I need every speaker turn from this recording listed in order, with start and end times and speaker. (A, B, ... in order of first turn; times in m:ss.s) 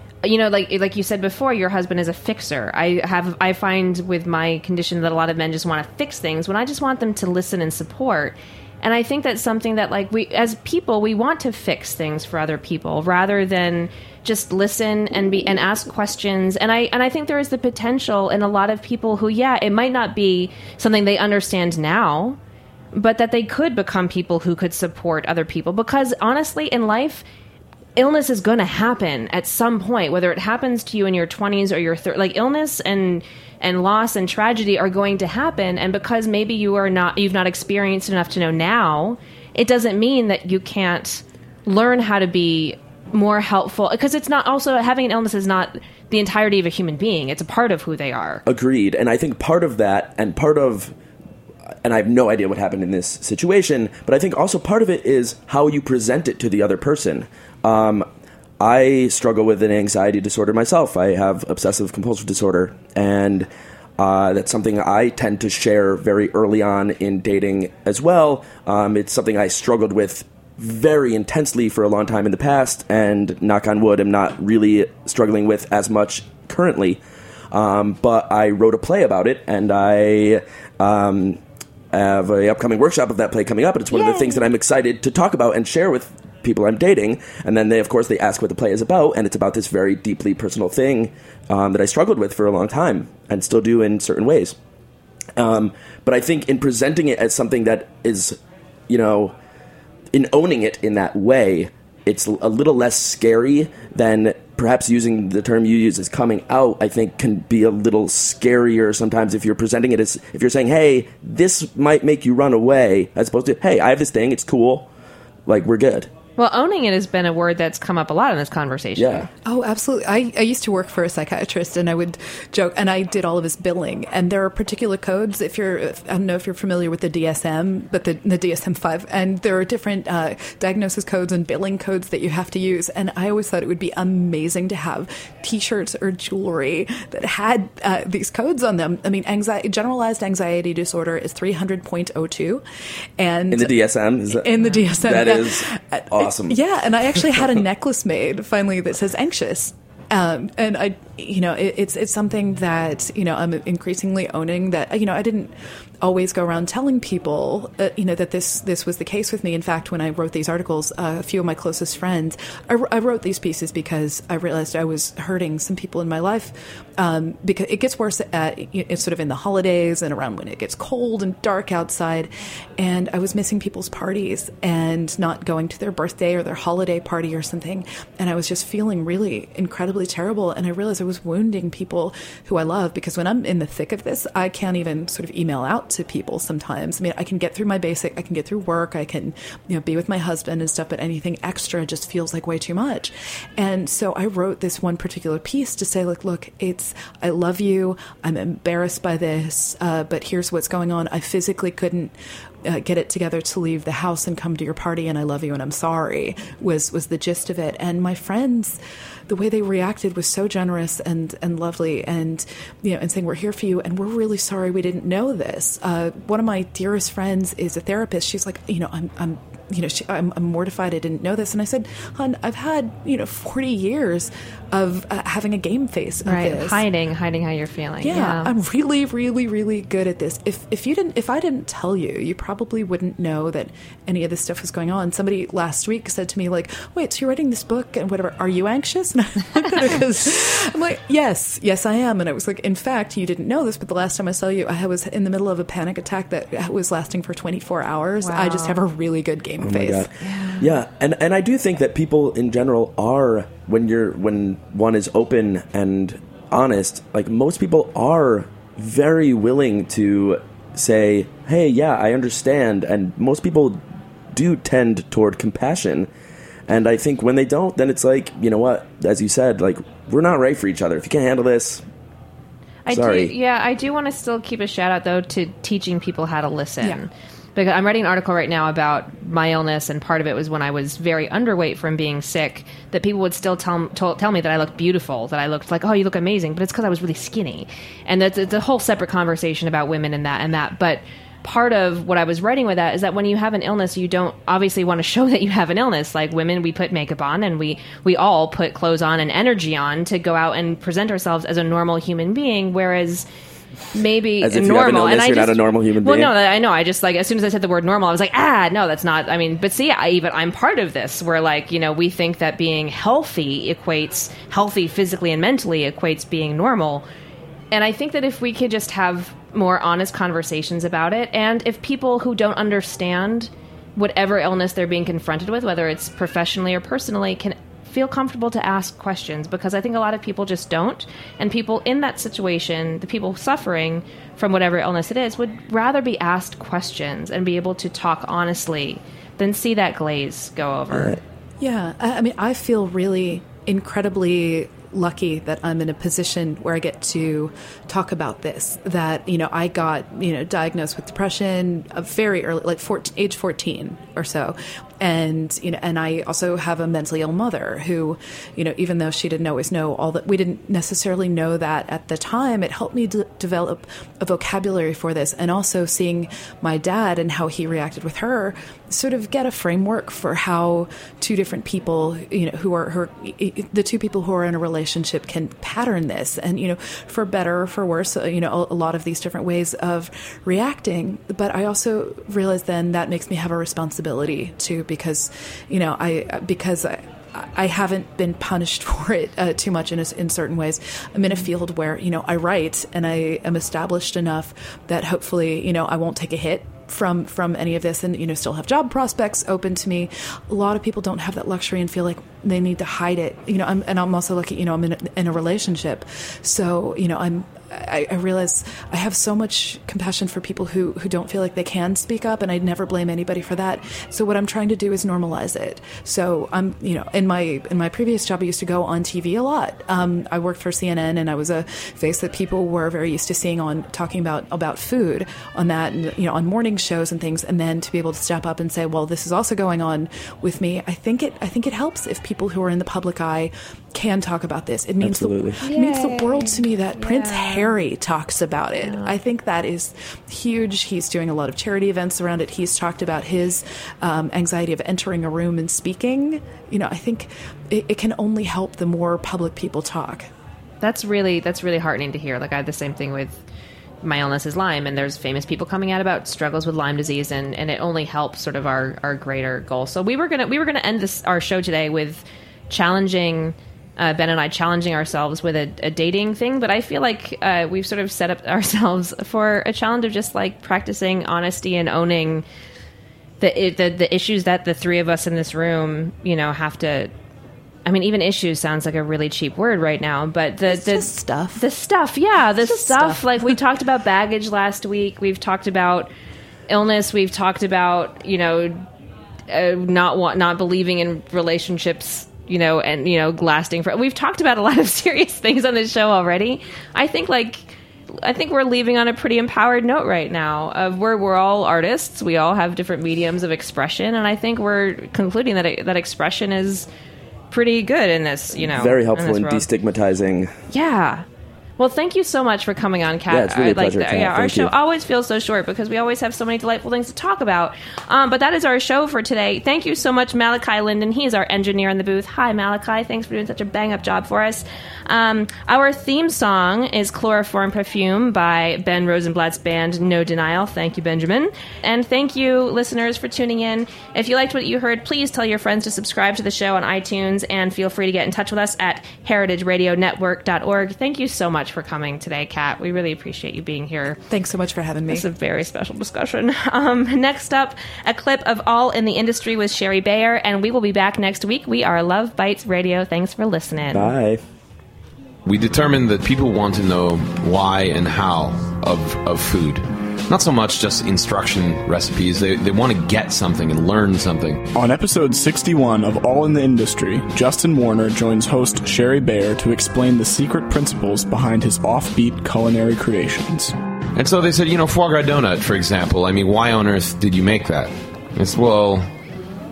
0:00.2-0:22.4 A
0:22.9-0:27.2 A
0:28.0-0:48.4 A
0:48.4-0:50.9 B
0:51.8-0:58.0 B
0:58.6-1:17.0 B
1:17.5-1:21.4 B
1:21.9-1:34.5 B
1:35.4-1:38.4 B
1:38.9-1:39.3 B
1:40.1-1:54.9 B
1:55.5-1:56.1 B
1:56.4-1:59.3 A
1:59.0-1:59.3 B
1:59.4-2:22.6 C
2:23.2-2:23.8 C
2:23.5-2:26.6 B
2:24.3-3:22.1 C
3:22.6-3:46.8 C
3:46.2-3:48.5 A
3:48.0-4:10.1 C
4:08.2-4:08.8 A
4:09.6-4:23.8 B
4:10.2-4:10.7 A
4:24.3-4:26.1 B
4:26.7-4:31.8 B
4:32.8-5:03.2 A
4:32.9-4:33.3 B
5:03.9-5:17.0 A
5:04.4-5:06.3 B
5:17.7-5:41.2 A
5:41.6-7:30.3 C
7:15.0-7:15.6 B
7:15.6-7:17.7 A
7:18.8-7:19.1 A
7:30.8-7:33.4 A
7:34.0-7:52.4 A
7:53.4-7:57.1 A
7:57.8-8:06.1 A
8:00.7-8:01.6 C
8:02.6-8:03.5 C
8:06.7-8:08.8 A
8:09.5-8:26.9 A
8:27.5-8:29.6 A
8:28.5-8:30.5 B
8:30.7-8:31.2 A
8:31.8-9:04.2 A
8:33.3-8:34.7 B
9:04.3-9:05.2 C
9:05.1-9:14.1 A
9:13.9-9:14.4 B
9:15.4-9:24.6 D
9:24.7-9:33.7 E
9:34.2-9:39.1 D